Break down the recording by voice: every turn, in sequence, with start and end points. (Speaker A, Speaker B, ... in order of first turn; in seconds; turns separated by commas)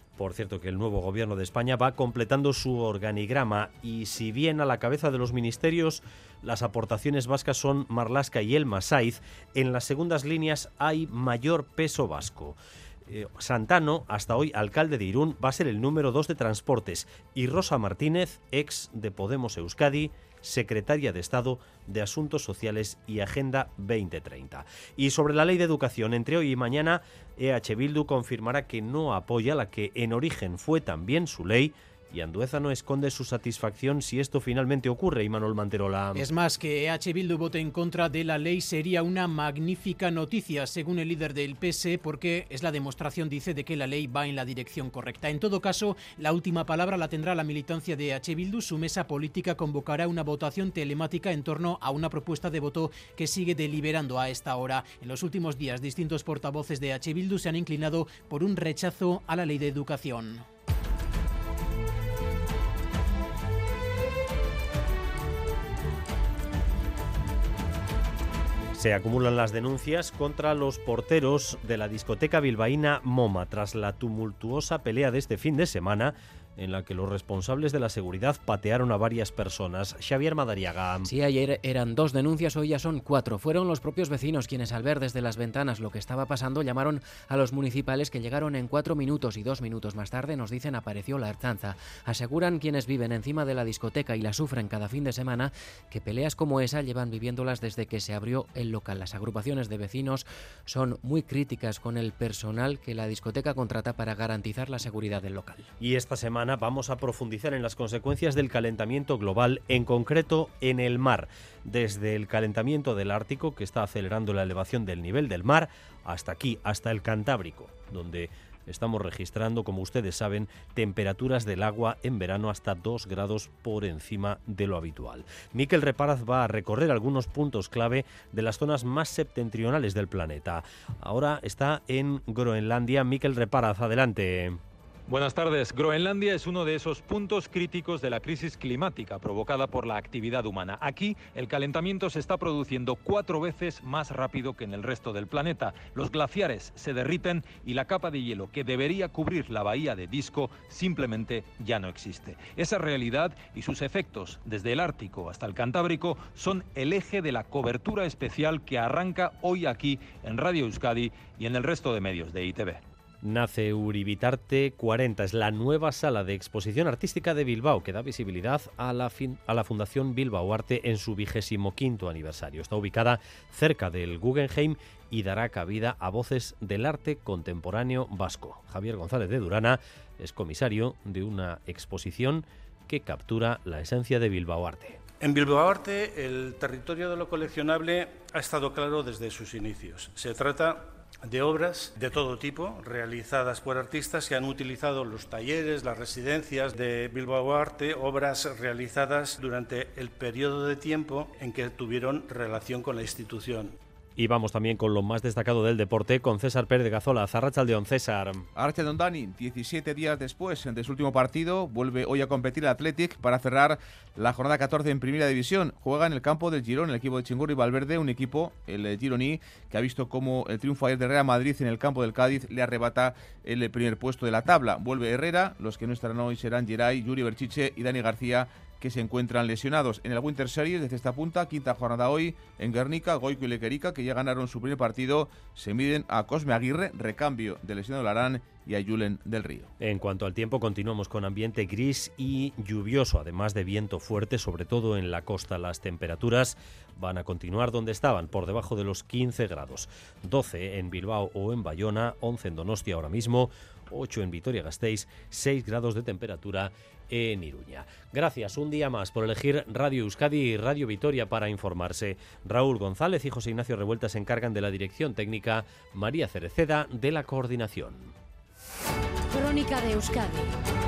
Speaker A: 0.2-36.2, Speaker B: 36.1-60.5, Speaker A: 68.7-81.1, Speaker C: 81.0-105.7, Speaker A: 105.8-134.6, Speaker D: 135.1-162.8, Speaker A: 163.2-185.0, Speaker E: 185.2-203.8, Speaker A: 204.2-208.5, Speaker F: 208.6-239.7, Speaker A: 239.8-268.1, Speaker C: 269.3-270.5